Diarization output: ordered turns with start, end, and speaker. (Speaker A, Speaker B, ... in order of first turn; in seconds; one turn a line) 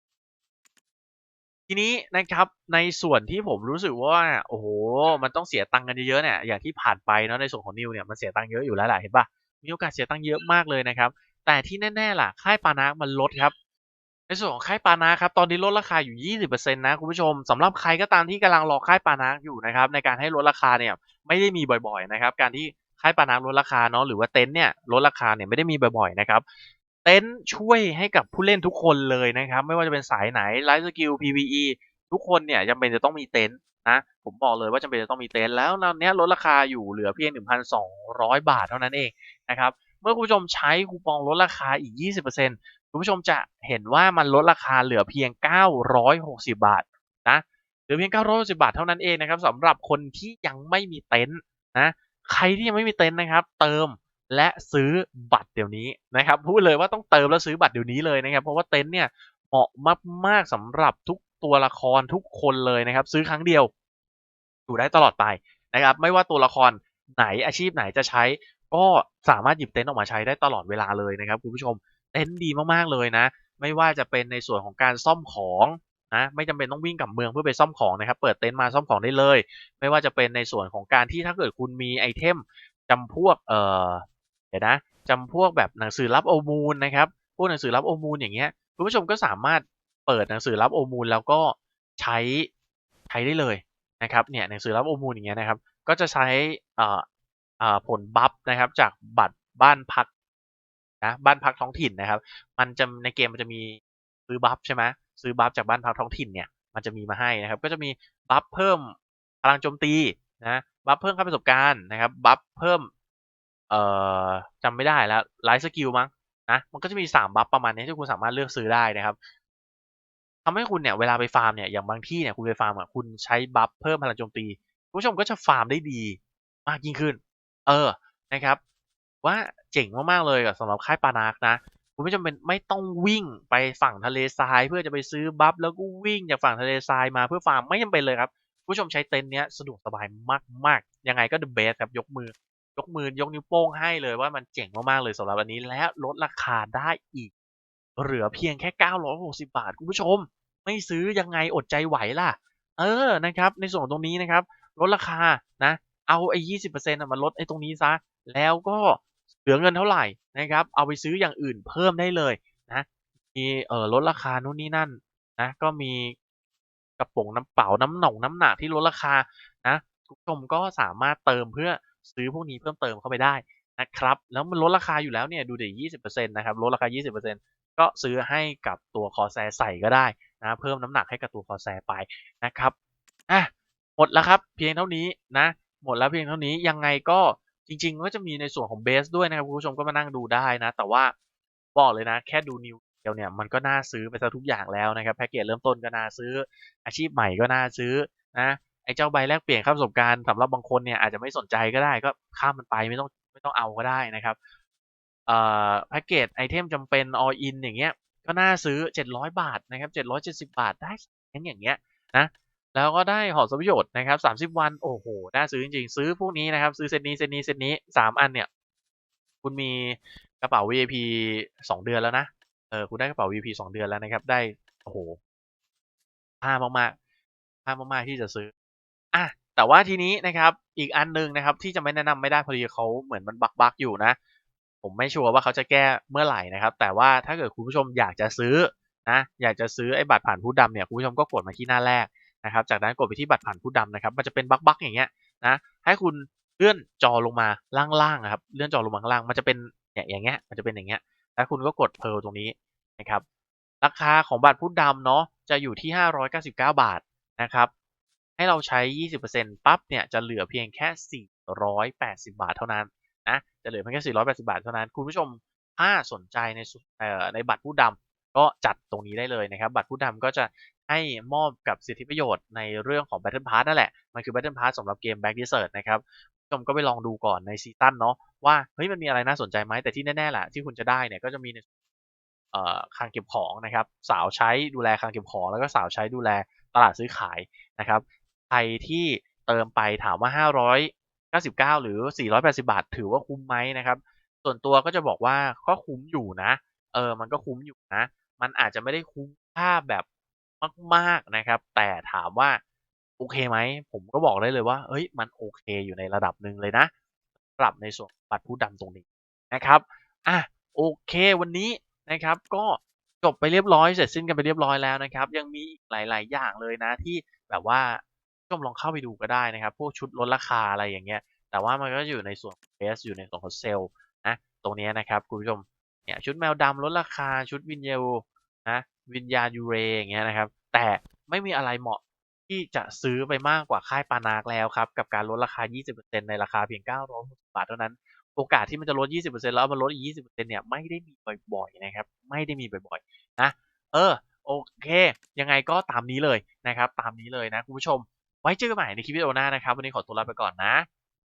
Speaker A: 1.7-13.5
Speaker A: 14.3-26.4
Speaker A: 27.0-63.7
Speaker A: 64.7-92.5
Speaker A: 93.1-97.0
Speaker A: 97.6-100.1
Speaker A: 101.0-112.9
Speaker A: 113.7-119.2
Speaker A: 120.4-128.6
Speaker A: 129.2-147.3
Speaker A: 148.0-166.1
Speaker A: 167.0-182.7
Speaker A: 183.3-191.1
Speaker A: 191.7-204.4
Speaker A: 205.3-218.5
Speaker A: 219.4-225.2
Speaker A: 226.4-226.9
Speaker A: 227.7-228.5
Speaker A: 229.1-234.2
Speaker A: 234.8-253.2
Speaker A: 253.8-257.7
Speaker A: 258.4-281.6
Speaker A: 282.5-300.0
Speaker A: 300.6-302.6
Speaker A: 303.2-306.9
Speaker A: 307.6-350.9